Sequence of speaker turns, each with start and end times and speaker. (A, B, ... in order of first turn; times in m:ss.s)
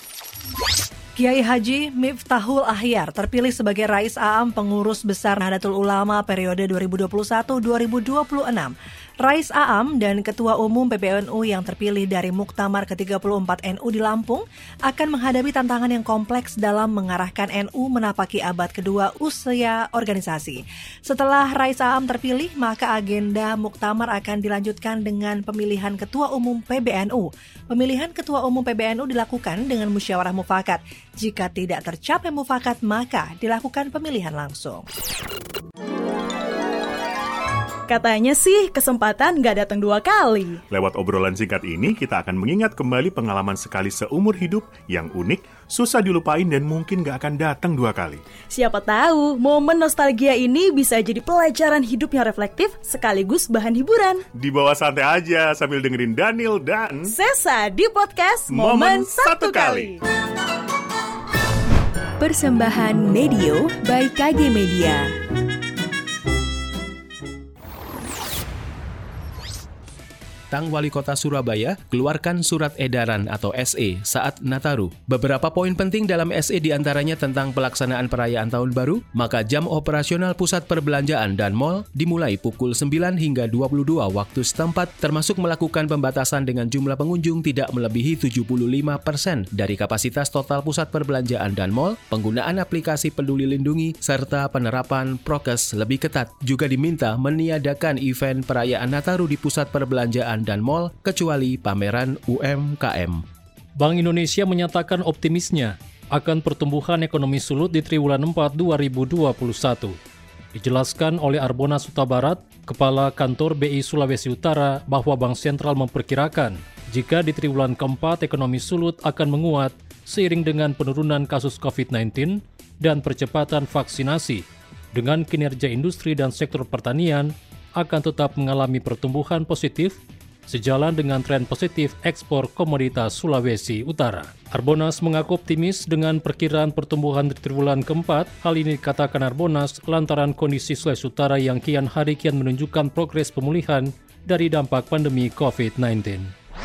0:01.2-0:34.8 A
0:37.9-0:40.6 B
0:40.7-0:48.2 C
0:48.5-0:54.2 B
0:54.3-0:57.1 C
0:57.0-1:00.0 B
0:58.5-0:59.9 C
1:02.2-1:05.1 D
1:10.5-1:43.2 E
1:43.8-1:50.0 F
1:50.5-2:26.3 F